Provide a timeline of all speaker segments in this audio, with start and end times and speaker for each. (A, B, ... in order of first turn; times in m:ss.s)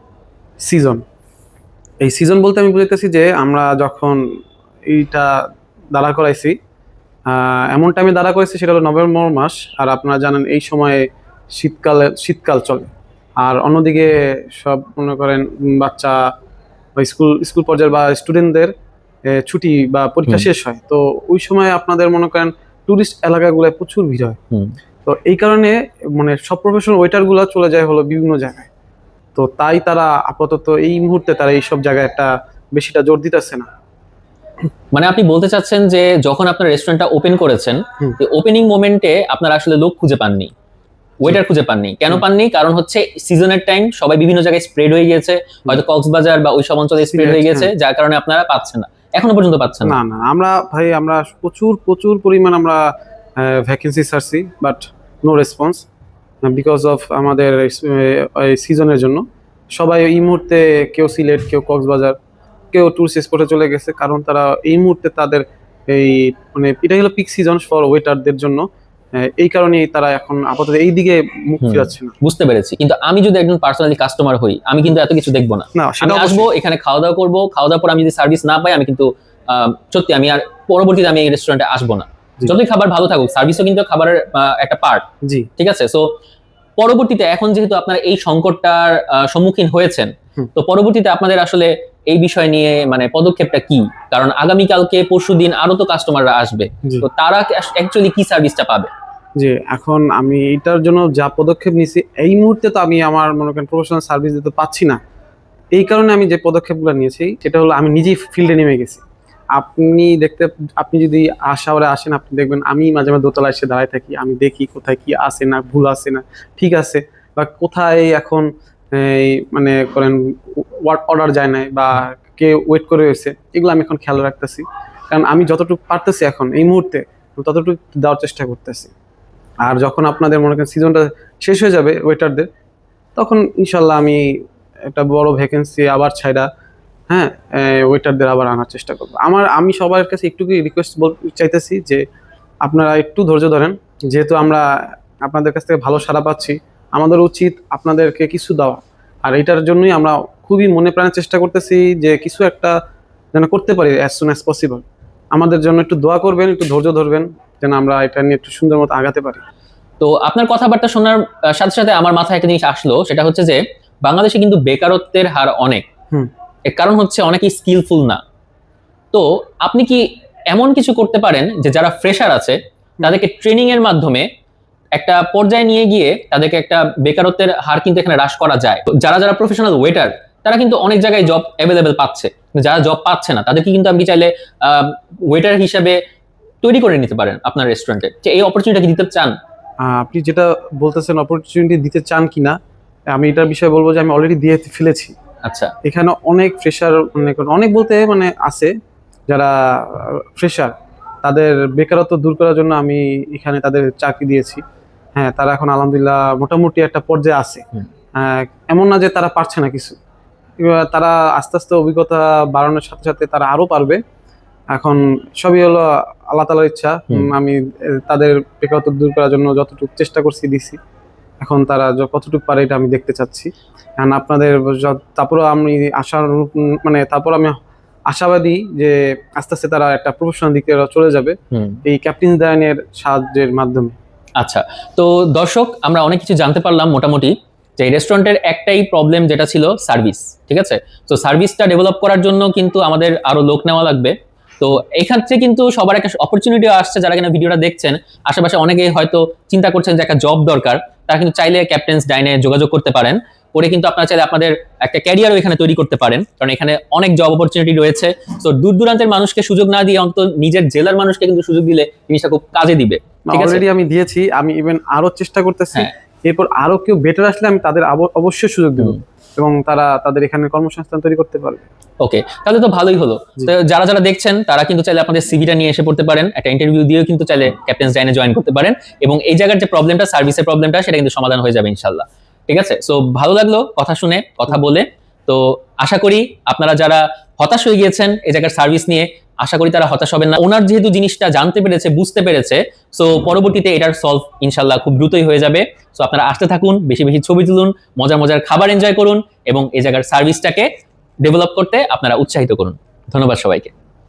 0:00.6-0:01.0 A
0:02.0-0:04.2 A
0:04.9-0:05.3 A
0:05.9-0:06.6 A
0:07.3-0:11.0 A
0:11.5-0:12.9 A
0:13.4-0:16.2 A
0:17.0-0:18.7 A
0:19.3-0:24.4 A
0:25.0-0:28.7 A
0:29.3-0:33.7 A
0:34.9-0:40.5 B
0:41.2-0:50.0 B
0:47.1-0:47.7 A
0:49.8-0:52.8 A
0:53.4-0:55.9 A
0:56.4-0:59.2 A
0:59.7-1:02.2 A
1:02.7-1:08.6 A
1:09.2-1:12.1 A
1:11.6-1:25.0 B
1:15.7-1:16.5 A
1:25.6-1:26.1 B
1:26.8-1:38.9 B
1:39.4-1:45.0 A
1:45.7-1:49.0 A
1:49.5-2:08.9 A
2:09.6-2:12.5 A
2:13.2-2:14.3 A
2:14.9-2:16.5 A
2:17.1-2:22.0 A
2:22.6-2:24.7 A
2:25.2-2:32.8 A
2:33.3-2:34.8 A
2:35.3-2:39.4 A
2:40.0-2:45.8 B
2:46.7-2:48.2 B
2:49.1-2:54.3 B
2:54.9-3:06.0 B
3:06.6-3:09.4 B
3:09.8-3:12.6 A
3:13.1-3:15.1 A
3:15.4-3:15.7 B
3:15.8-3:18.7 A
3:19.3-3:24.6 A
3:25.2-3:30.0 A
3:30.6-3:34.0 A
3:34.7-3:40.8 A
3:41.4-3:47.6 A
3:48.1-3:53.9 A
3:51.5-3:51.8 B
3:54.4-4:23.6 B
4:23.3-4:31.6 A
4:32.0-5:00.7 B
5:01.2-5:03.7 B